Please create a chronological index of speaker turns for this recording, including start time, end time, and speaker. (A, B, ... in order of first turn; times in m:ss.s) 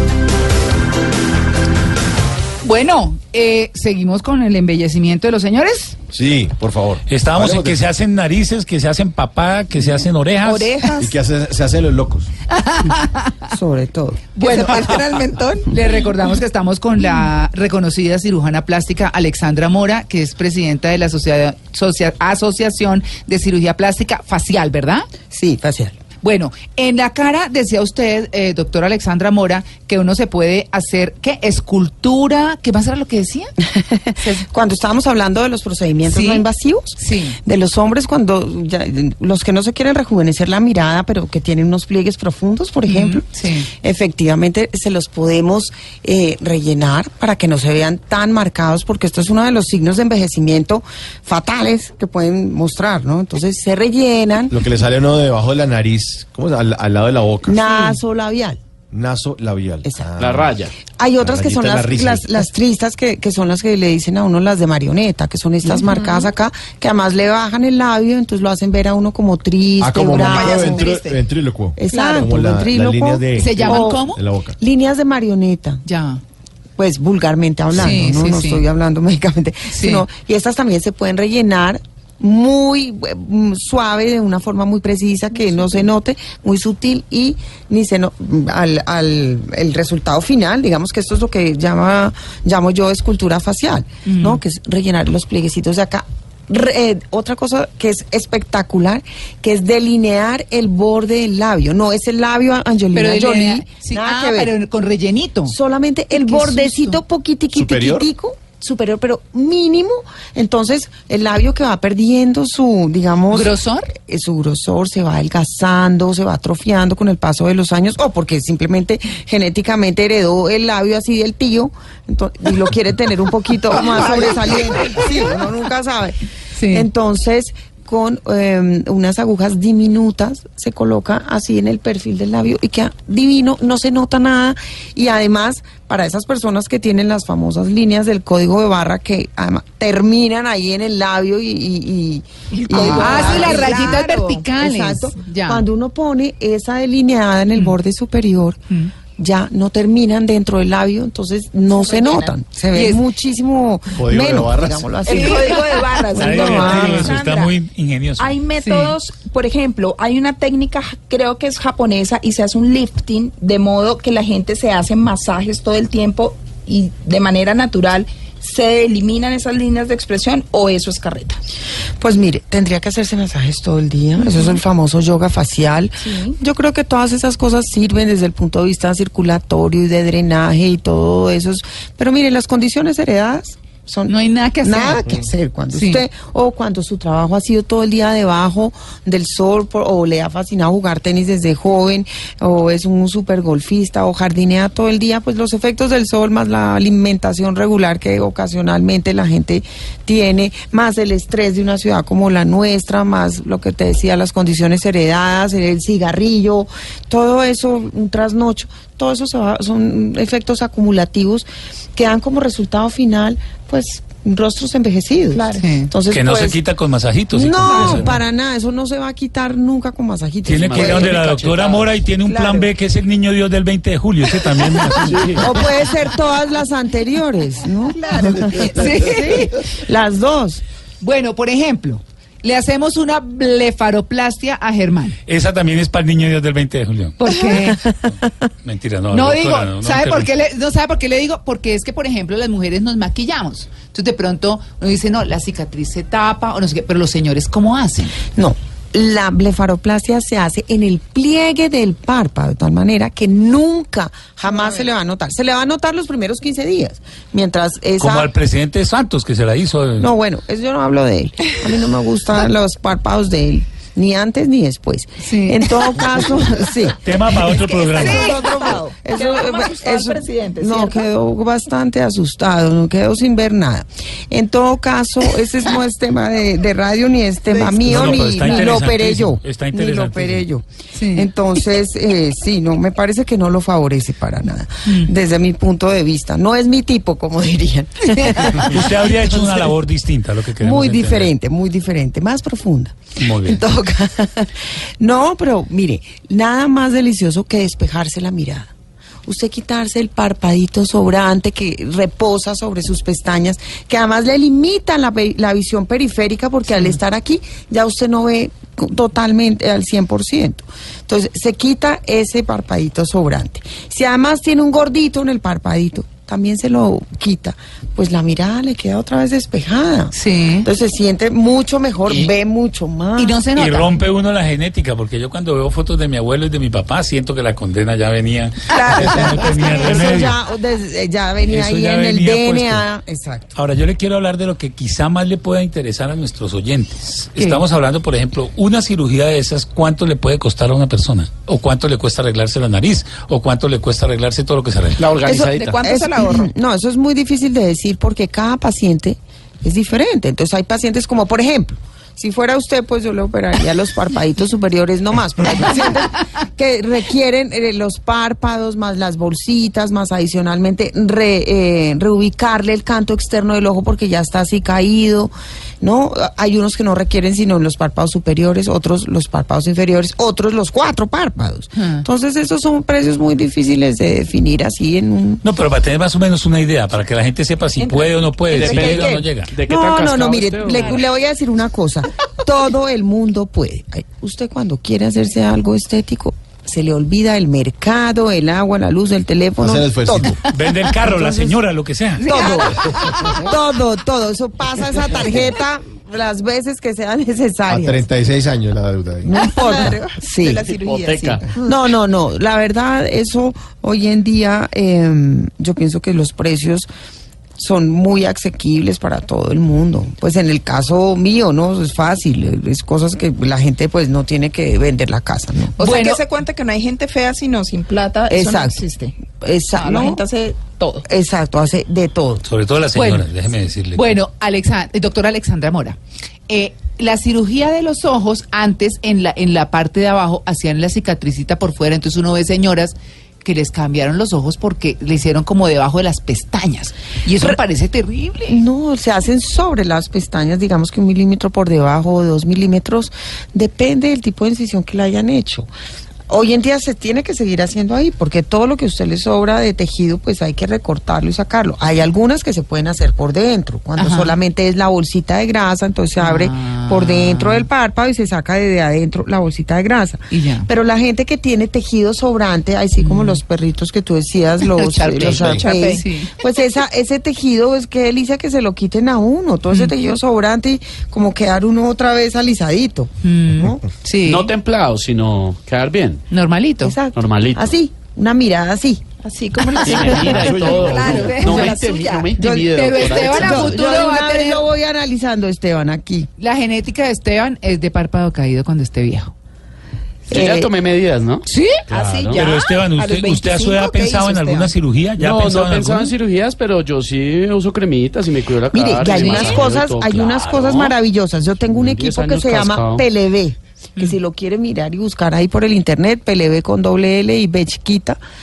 0:02.6-0:06.0 A
0:06.1-0:07.8 B
0:07.1-0:10.9 C
0:10.4-0:11.1 D
0:11.0-0:12.3 B
0:12.6-0:13.3 A
0:13.5-0:14.3 E
0:14.4-0:15.0 A
0:14.4-0:15.7 D
0:15.7-0:25.1 A
0:25.3-0:26.0 E
0:26.2-0:33.5 A
0:33.6-0:54.6 E
0:34.2-0:34.4 A
0:36.1-0:36.4 A
0:37.0-0:37.4 A
0:42.9-0:43.7 A
0:54.5-0:57.7 B
0:57.4-0:58.6 E
0:58.9-1:00.5 B
1:00.2-1:00.7 F
1:01.0-1:10.9 E
1:01.2-1:02.3 B
1:05.8-1:06.2 D
1:09.8-1:14.6 B
1:10.1-1:11.2 D
1:11.8-1:15.8 E
1:13.4-1:14.2 A
1:15.8-1:16.2 A
1:16.8-1:44.5 E
1:17.7-1:18.6 A
1:19.7-1:20.0 A
1:34.0-1:34.4 A
1:42.9-1:45.6 A
1:45.5-2:28.6 E
1:46.1-1:47.0 A
1:47.5-1:48.1 B
1:53.3-1:53.9 A
2:06.5-2:06.9 A
2:22.5-2:24.4 D
2:22.7-2:25.6 A
2:29.2-2:37.2 E
2:31.7-2:32.3 D
2:32.7-2:33.0 A
2:33.9-2:35.0 B
2:35.0-2:37.5 D
2:35.1-2:35.8 A
2:36.1-2:38.4 C
2:38.2-2:51.4 D
2:38.6-2:38.9 A
2:52.0-3:36.6 E
2:56.0-2:56.4 D
3:04.1-3:06.0 A
3:35.3-3:35.6 D
3:35.6-3:35.9 A
3:36.1-3:38.1 C
3:37.3-3:41.2 E
3:37.7-3:38.0 D
3:40.4-3:45.5 C
3:40.5-3:41.9 F
3:42.3-3:42.7 E
3:44.9-3:45.5 F
3:45.4-3:50.6 E
3:48.0-3:49.2 D
3:48.7-3:49.5 A
3:51.0-3:55.2 A
3:55.3-3:57.2 C
3:57.2-3:57.8 A
3:57.5-3:58.1 E
3:58.6-4:00.3 C
3:59.1-4:08.2 A
4:08.3-4:18.3 E
4:18.0-4:20.1 C
4:20.0-4:27.0 E
4:25.2-4:25.8 A
4:27.0-4:28.6 C
4:27.4-4:31.0 D
4:27.9-4:49.7 E
4:37.7-4:38.7 A
4:37.8-4:38.4 D
4:37.8-4:40.4 C
4:40.9-4:41.3 A
4:44.8-4:45.1 A
4:48.6-4:51.3 C
4:50.6-4:58.7 E
4:53.2-4:53.6 C
4:59.2-5:23.4 E
5:20.1-5:20.7 A
5:23.2-5:24.0 A
5:23.5-5:30.4 C
5:28.7-5:30.1 D
5:29.2-5:33.5 E
5:31.4-5:32.8 C
5:33.5-5:45.1 C
5:45.0-5:45.8 F
5:45.2-6:15.4 E
5:45.6-5:46.5 D
6:11.8-6:12.0 A
6:15.4-6:19.5 C
6:17.8-6:18.1 D
6:18.5-6:21.0 F
6:18.5-6:30.4 E
6:29.6-6:30.4 B
6:30.4-6:32.3 C
6:31.0-6:31.6 E
6:32.2-6:38.0 E
6:32.2-6:33.0 D
6:37.7-6:39.3 B
6:39.2-6:40.7 E
6:39.4-6:41.7 D
6:40.8-6:41.4 F
6:41.6-6:46.9 E
6:47.6-6:55.8 E
6:55.8-6:59.1 D
6:55.8-6:56.2 A
6:58.3-6:58.8 E
6:59.4-7:00.2 E
6:59.7-7:01.0 D
7:01.0-7:02.4 E
7:02.4-7:04.1 C
7:02.9-7:03.3 A
7:03.9-7:06.0 A
7:06.5-7:18.6 A
7:18.5-7:25.7 E
7:26.3-7:53.8 E
7:34.0-7:34.4 A
7:36.2-7:37.7 A
7:40.3-7:40.7 A
7:43.0-7:43.4 A
7:44.6-7:46.3 A
7:45.4-7:46.1 D
7:53.2-7:54.5 A
7:54.2-7:56.2 F
7:56.3-7:57.0 A
7:56.8-7:59.0 E
7:57.2-7:57.7 F
7:59.2-8:02.3 D
7:59.8-8:03.8 F
8:00.2-8:01.7 B
8:01.1-8:01.7 A
8:02.4-8:06.3 E
8:02.7-8:04.6 A
8:06.4-8:09.3 A
8:10.3-8:10.7 E
8:10.3-8:12.4 F
8:11.4-8:11.8 A
8:11.9-8:14.7 D
8:12.3-8:16.1 C
8:15.2-8:20.9 F
8:18.7-8:28.2 E
8:19.2-8:19.5 D
8:21.7-8:23.0 F